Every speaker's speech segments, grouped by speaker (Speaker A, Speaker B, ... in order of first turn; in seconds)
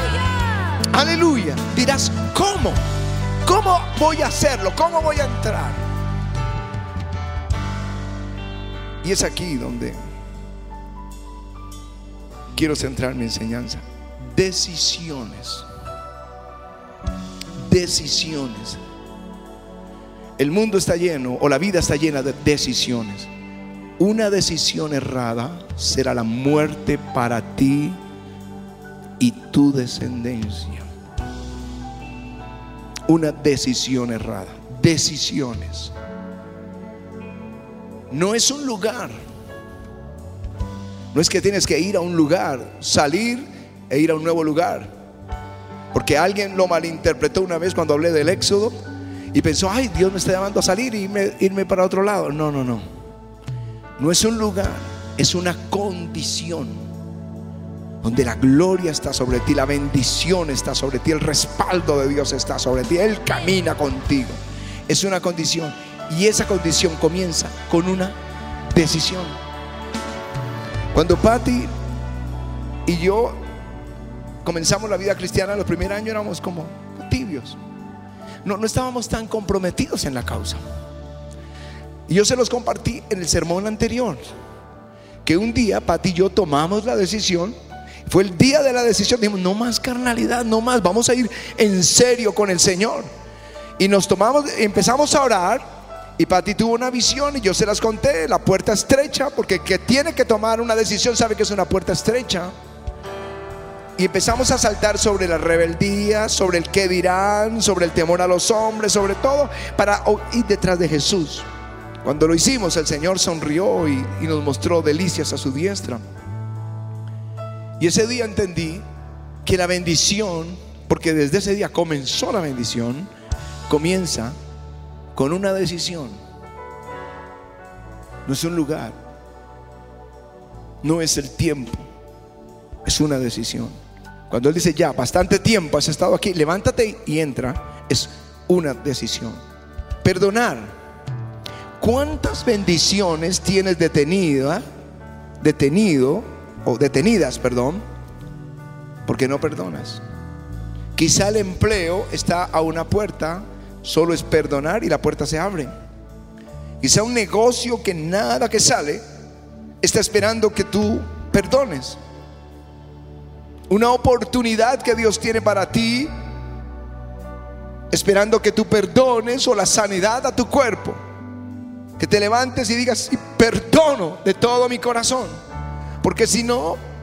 Speaker A: 0.9-2.8, 3.4-5.8, 9.0-10.0, 12.5-15.7, 17.6-18.8, 20.4-23.3, 24.0-28.0, 29.2-30.9, 33.1-35.9, 38.1-39.1, 41.1-44.9, 45.9-48.8, 49.3-52.8, 54.0-56.8, 58.0-68.2, 68.7-69.4, 70.9-71.7, 72.8-73.4, 74.4-77.6, 78.4-80.6, 82.1-84.2, 85.2-93.1, 93.8-95.6, 96.2-102.5, 104.0-111.5, 112.0-116.0, 117.8-118.8, 119.4-123.1, 123.7-124.3, 125.1-126.2, 128.2-129.0, 130.8-131.8, 132.8-133.8, 134.3-139.4, 140.0-140.7, 141.8-144.6, 145.4-147.8, 149.1-150.0, 150.9-155.7, 156.8-159.0, 159.8-162.0, 163.7-166.1, 167.9-171.0, 172.0-175.3, 176.0-176.8